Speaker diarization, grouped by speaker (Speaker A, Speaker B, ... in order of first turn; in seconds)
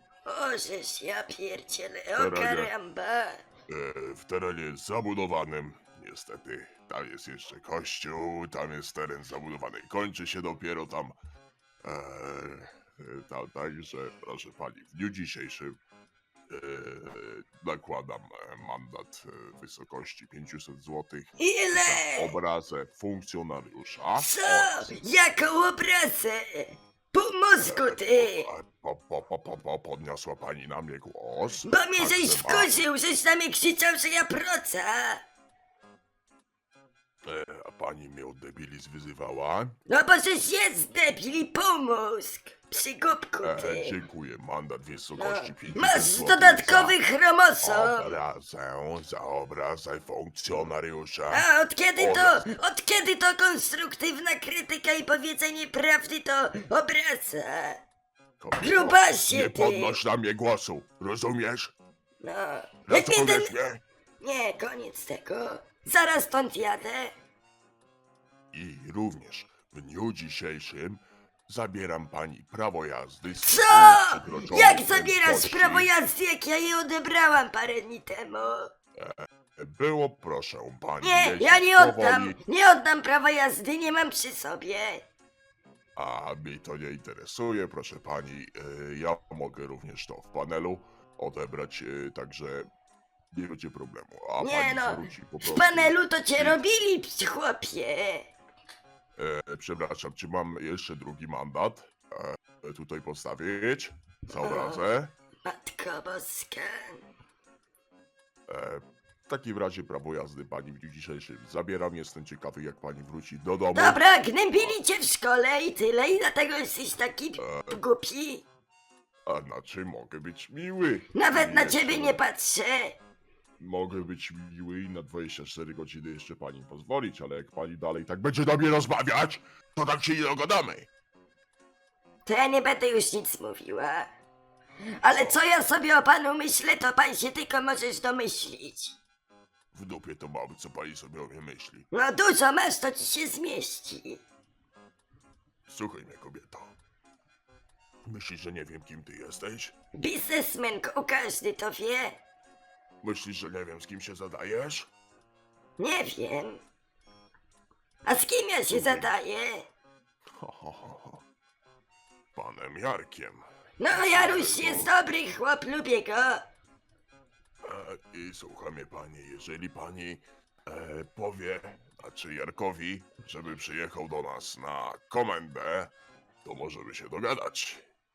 Speaker A: 0.2-3.4, 21.4-22.4, 24.2-28.5, 31.6-35.2, 39.9-43.9, 45.2-48.1, 51.3-57.8, 58.6-60.0, 62.2-63.5, 64.2-67.2, 73.4-78.7, 81.0-85.0, 94.4-98.3, 104.3-104.8, 105.4-107.0, 113.7-118.4, 121.1-123.0, 132.2-134.1, 135.0-138.9, 141.9-144.2, 149.9-152.2, 155.8-156.6, 158.0-159.7, 163.8-166.4
Speaker B: 2.2-2.7, 3.7-11.2, 11.8-15.8, 16.5-24.9, 27.6-32.7, 37.2-39.8, 43.4-47.0, 47.6-52.5, 58.4-61.7, 62.9-63.8, 68.5-75.9, 79.0-82.4, 86.0-92.7, 93.3-96.6, 99.2-105.1, 108.5-114.0, 117.4-117.8, 119.2-122.2, 123.6-130.9, 135.1-135.4, 139.7-141.9, 145.7-146.7, 148.1-149.7, 153.0-154.9, 158.7-159.1, 160.3-161.2, 162.3-164.9, 167.6-175.9, 176.4-177.8